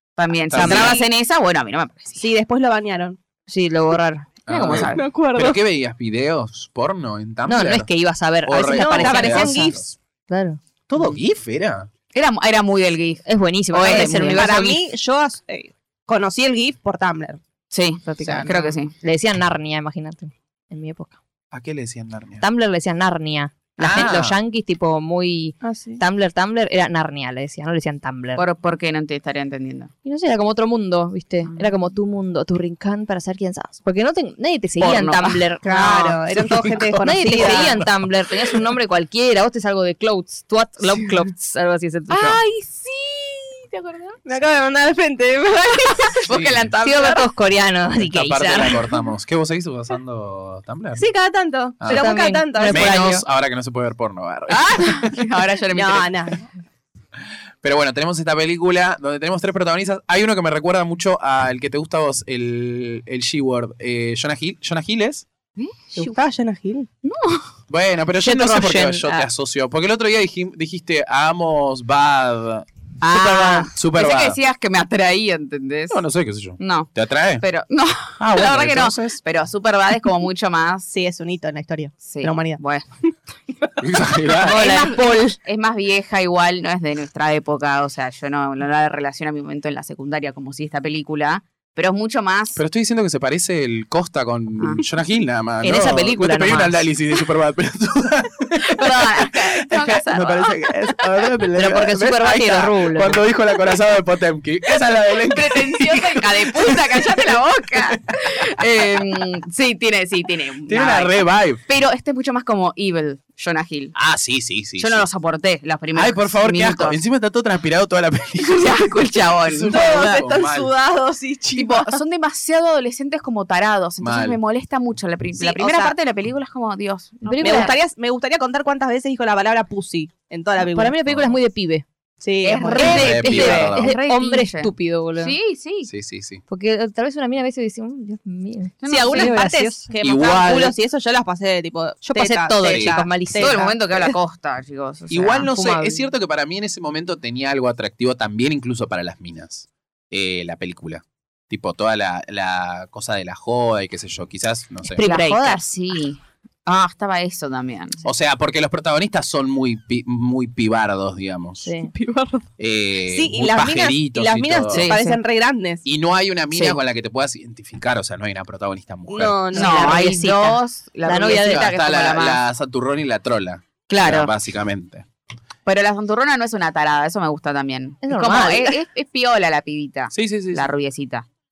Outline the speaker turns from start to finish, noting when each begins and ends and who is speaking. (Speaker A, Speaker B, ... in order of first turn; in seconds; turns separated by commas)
Speaker A: 0.2-2.2, Speaker B: 0.5-1.0, Speaker C: 0.5-1.0, Speaker D: 0.7-1.0, Speaker D: 2.2-3.2, Speaker C: 3.5-5.0, Speaker B: 4.5-7.9, Speaker A: 4.5-5.0, Speaker D: 4.7-5.6, Speaker C: 7.5-9.8, Speaker B: 8.4-9.9, Speaker D: 8.7-9.8, Speaker C: 10.3-10.6, Speaker B: 10.9-11.9, Speaker A: 12.1-14.6, Speaker C: 13.2-14.8, Speaker D: 13.8-17.4, Speaker A: 17.7-18.9, Speaker C: 18.1-21.1, Speaker D: 18.2-18.6, Speaker B: 21.5-22.4, Speaker C: 22.4-28.4, Speaker B: 23.8-24.4, Speaker D: 25.6-26.0, Speaker A: 28.4-29.9, Speaker C: 30.0-36.2, Speaker A: 34.8-35.4, Speaker D: 35.6-37.8, Speaker B: 36.3-37.9, Speaker C: 37.0-42.4, Speaker A: 42.1-44.2, Speaker D: 44.2-46.2, Speaker A: 46.0-47.3, Speaker B: 46.3-46.7, Speaker C: 46.8-48.8, Speaker B: 48.0-51.0, Speaker D: 51.0-53.0, Speaker B: 51.8-52.1, Speaker C: 51.9-53.2, Speaker B: 52.7-55.0, Speaker A: 54.5-56.1, Speaker D: 55.7-56.5, Speaker B: 57.6-65.2, Speaker D: 65.9-66.9, Speaker A: 67.0-67.5, Speaker B: 67.7-72.7, Speaker C: 68.2-69.3, Speaker A: 73.0-76.0, Speaker C: 73.1-73.7, Speaker B: 73.7-74.4, Speaker B: 75.9-77.4, Speaker A: 76.6-80.9, Speaker B: 78.2-79.2, Speaker D: 80.9-83.1, Speaker A: 82.0-82.9, Speaker B: 83.8-84.7, Speaker C: 84.4-85.4, Speaker A: 84.4-92.6, Speaker B: 92.5-107.3, Speaker A: 94.6-94.8, Speaker C: 95.6-96.9, Speaker A: 98.6-100.7, Speaker C: 101.5-103.2, Speaker A: 105.2-113.9, Speaker B: 110.7-111.6, Speaker B: 113.9-115.0, Speaker A: 114.8-117.0, Speaker B: 115.9-118.9, Speaker A: 118.4-120.2, Speaker B: 119.4-120.7, Speaker D: 119.7-122.0, Speaker A: 121.5-127.8, Speaker B: 124.0-124.4, Speaker D: 125.3-126.0, Speaker C: 127.2-127.7, Speaker D: 127.4-131.0, Speaker C: 130.6-131.8, Speaker B: 131.1-131.3, Speaker D: 132.2-133.1, Speaker A: 132.4-135.9, Speaker C: 132.6-135.4, Speaker B: 132.8-133.9, Speaker B: 135.8-136.4, Speaker C: 136.5-139.9, Speaker A: 138.8-139.4, Speaker D: 138.9-144.1, Speaker B: 140.0-140.8, Speaker C: 142.0-143.7, Speaker B: 142.7-142.9, Speaker A: 143.3-145.5, Speaker B: 145.1-155.0, Speaker C: 145.4-146.1, Speaker C: 154.9-155.6, Speaker A: 155.0-158.0, Speaker B: 158.0-161.7, Speaker C: 161.6-161.9, Speaker D: 161.8-162.4, Speaker B: 162.6-164.9, Speaker D: 163.1-165.8, Speaker A: 164.7-165.1, Speaker B: 165.8-169.4, Speaker D: 169.1-170.0, Speaker C: 169.5-171.7, Speaker A: 169.5-172.4, Speaker B: 171.4-175.1, Speaker A: 173.9-174.3, Speaker A: 175.7-181.2, Speaker C: 178.0-178.8, Speaker B: 180.1-180.7